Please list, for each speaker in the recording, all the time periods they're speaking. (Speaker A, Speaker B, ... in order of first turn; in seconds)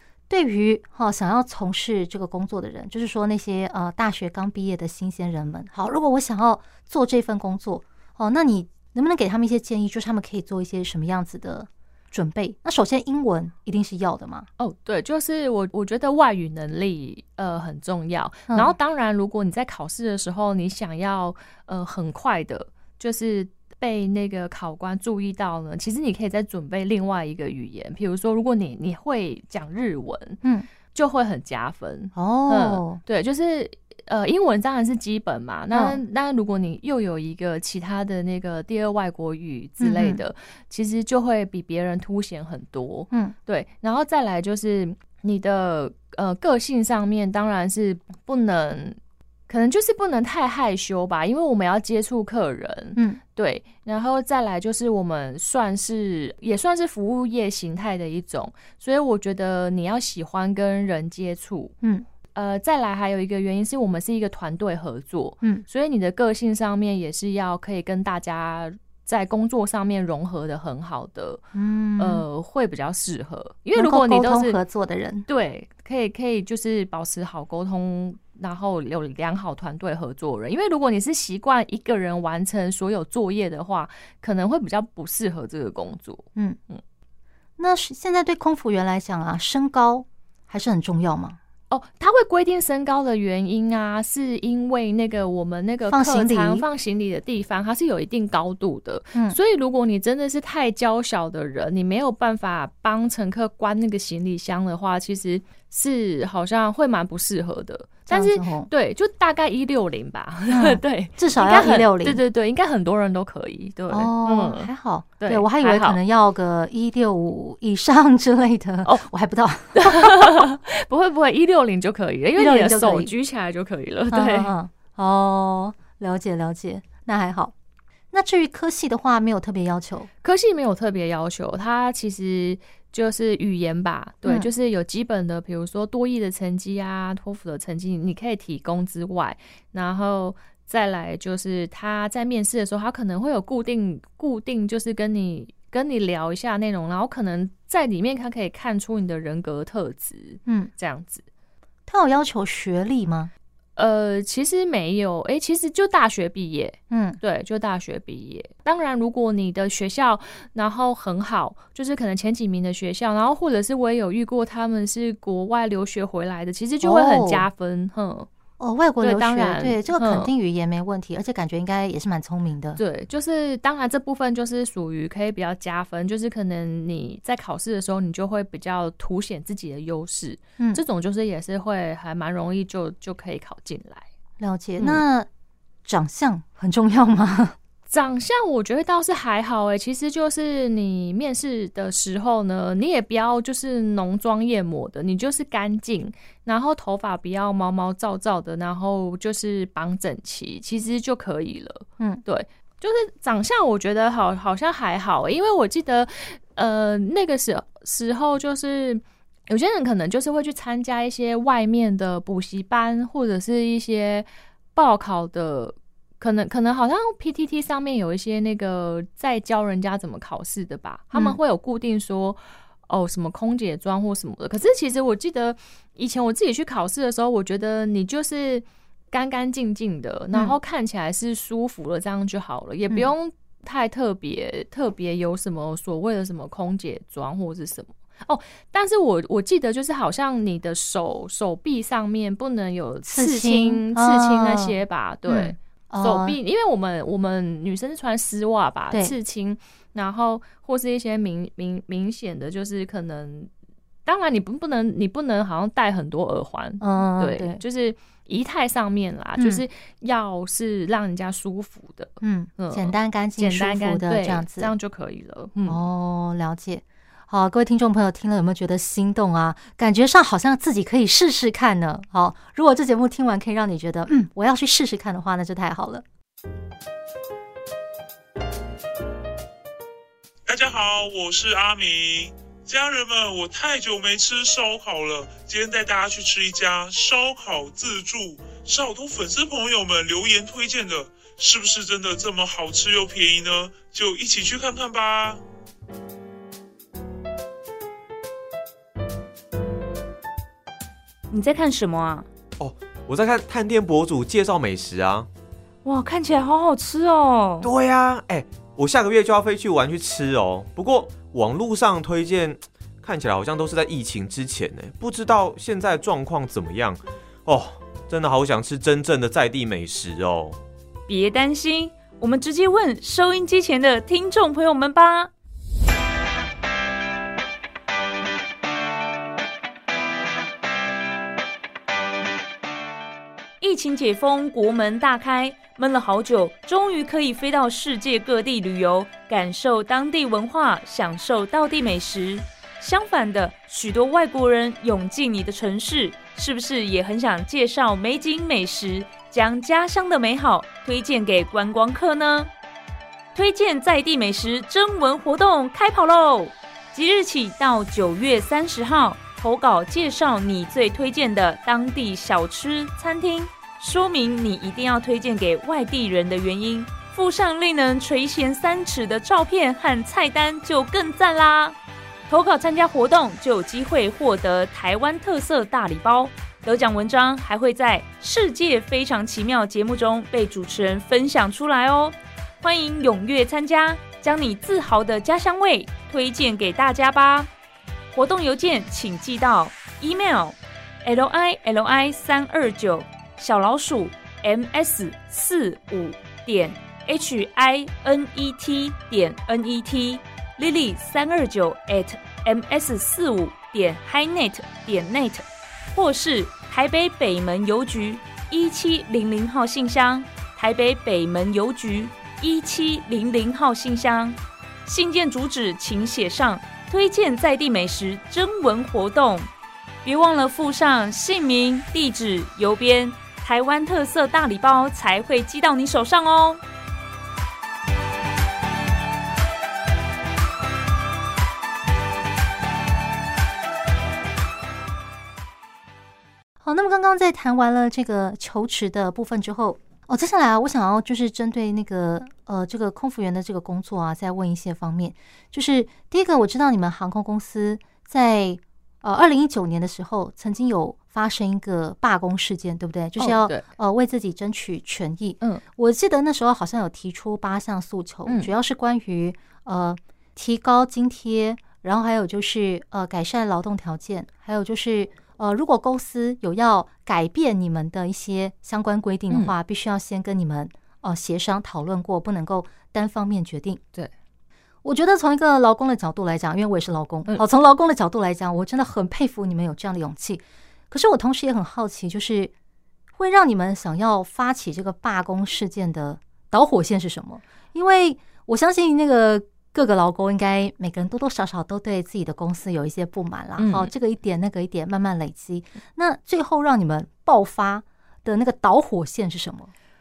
Speaker A: 0.3-14.5, 30.4-30.7, 32.1-33.0, 35.7-36.0, 39.8-40.2, 61.8-62.1, 71.5-72.2, 73.8-75.3, 87.6-91.4, 95.9-96.7, 108.1-108.7, 110.5-112.2, 113.9-120.4, 122.4-123.1, 124.1-127.5, 128.1-130.1, 150.5-150.7, 151.9-153.3, 156.9-157.2, 166.8-167.5, 168.6-172.8, 184.4-185.3, 185.8-187.6, 221.1-221.4, 243.0-246.4, 256.8-257.6, 259.4-259.6, 262.2-264.7, 265.7-276.0, 436.6-473.8, 474.8-482.5, 483.2-499.7
Speaker B: 14.6-30.4, 30.9-49.0, 49.5-61.7, 62.3-71.4, 72.0-74.6, 75.3-86.8, 91.7-116.0, 119.7-124.5, 130.2-151.2, 153.8-168.3, 169.0-170.3, 172.8-184.1, 184.8-185.0, 187.9-253.5, 254.1-265.8, 453.2-453.7, 458.3-458.5, 469.3-469.6, 493.6-493.9
Speaker C: 280.5-295.4
Speaker D: 301.3-302.3, 305.9-307.7, 321.1-325.3, 333.6-352.5, 353.4-371.8, 372.3-387.5, 388.1-419.5, 420.0-426.6
Speaker E: 302.6-305.3, 307.6-320.6